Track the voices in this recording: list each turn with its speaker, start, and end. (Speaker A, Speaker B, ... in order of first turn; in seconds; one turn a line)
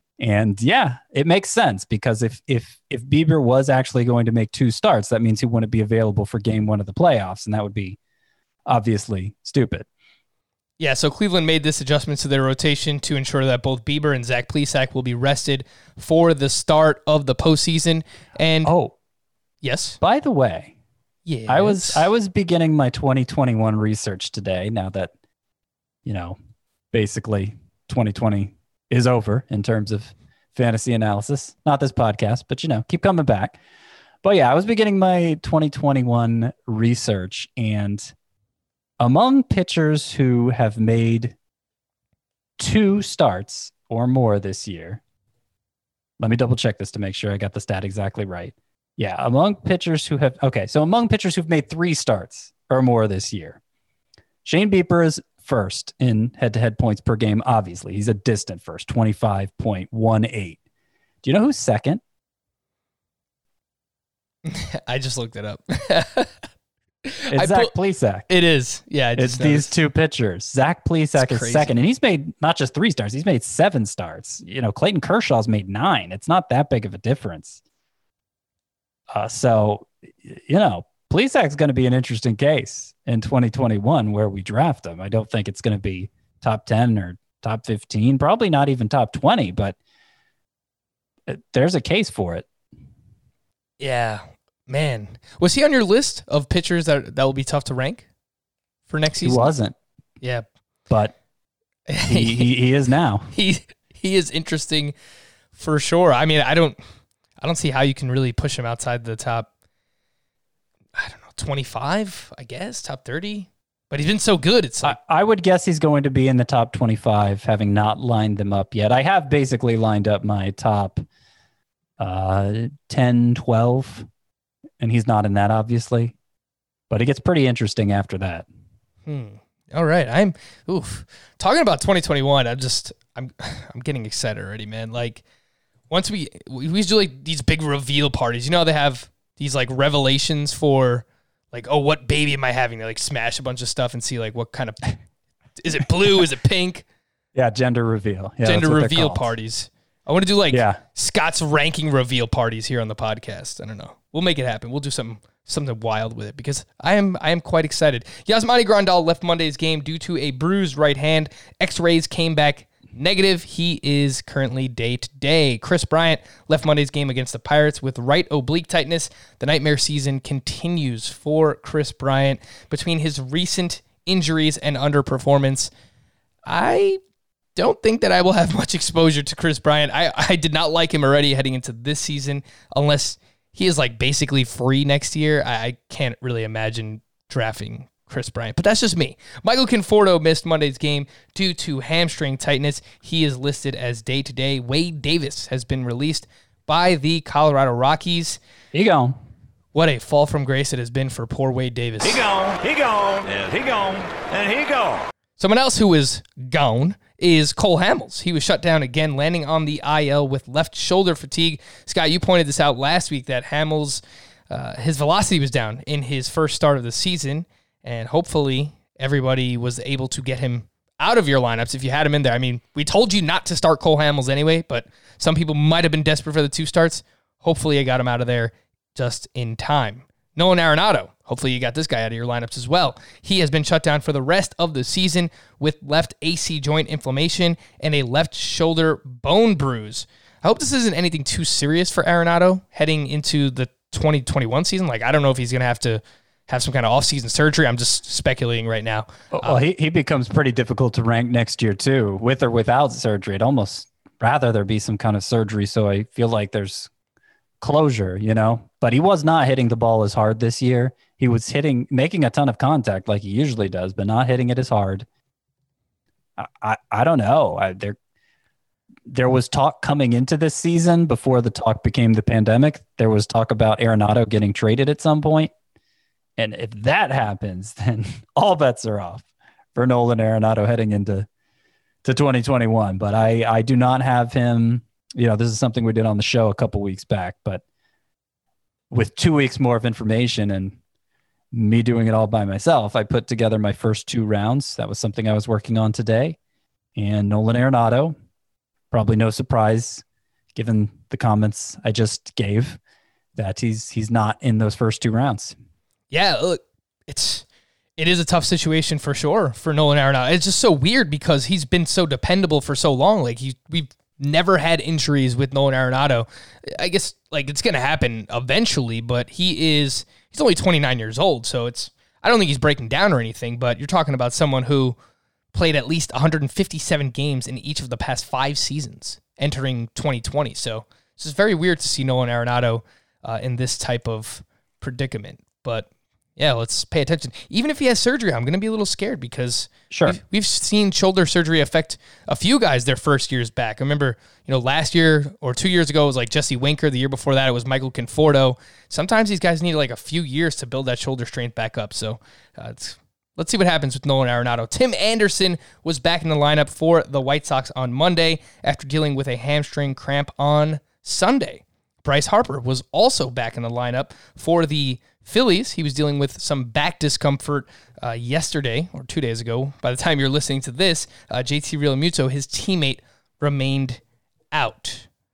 Speaker A: 0.2-8.0
Speaker A: 8.7-9.9
Speaker B: 10.8-18.7
Speaker A: 18.6-18.9
Speaker B: 19.6-20.0
Speaker A: 20.0-20.7
Speaker B: 21.2-22.1
Speaker A: 21.5-25.1
Speaker A: 26.0-26.4
Speaker A: 26.9-33.6
Speaker A: 34.2-38.1
Speaker A: 39.0-41.4
Speaker A: 42.6-45.0
Speaker A: 46.2-53.6
Speaker A: 54.4-60.6
Speaker A: 61.2-62.0
Speaker B: 64.4-66.3
Speaker B: 67.0-67.7
Speaker A: 67.3-68.3
Speaker B: 68.3-69.7
Speaker A: 69.2-77.6
Speaker B: 71.1-71.7
Speaker A: 79.1-89.8
Speaker A: 91.3-92.5
Speaker B: 93.8-98.0
Speaker B: 98.9-99.5
Speaker A: 99.2-99.8
Speaker B: 100.2-100.5
Speaker A: 100.9-101.1
Speaker B: 101.9-102.5
Speaker A: 102.0-103.3
Speaker B: 103.3-104.9
Speaker B: 105.5-106.8
Speaker B: 107.4-109.5
Speaker B: 110.9-115.0
Speaker A: 114.8-121.0
Speaker A: 122.0-124.1
Speaker A: 124.8-126.1
Speaker A: 126.9-128.5
Speaker B: 129.1-135.2
Speaker B: 135.9-145.0
Speaker B: 145.6-146.8
Speaker A: 147.3-149.3
Speaker B: 148.4-175.7
Speaker A: 150.5-150.8
Speaker B: 176.4-177.0
Speaker B: 177.6-198.4
Speaker A: 198.7-199.2
Speaker B: 199.7-202.2
Speaker C: 202.0-205.1
Speaker B: 205.4-249.6
Speaker A: 249.3-256.9
Speaker A: 257.6-265.1
Speaker A: 266.4-267.9
Speaker A: 269.1-275.5
Speaker A: 276.4-281.3
Speaker A: 282.0-287.6
Speaker A: 288.9-290.8
Speaker A: 291.5-296.4
Speaker A: 296.9-298.1
Speaker A: 298.9-300.0
Speaker A: 300.6-302.8
Speaker A: 303.4-305.5
Speaker B: 306.1-307.4
Speaker B: 308.0-324.9
Speaker B: 325.5-374.0
Speaker A: 339.9-340.2
Speaker B: 374.5-375.1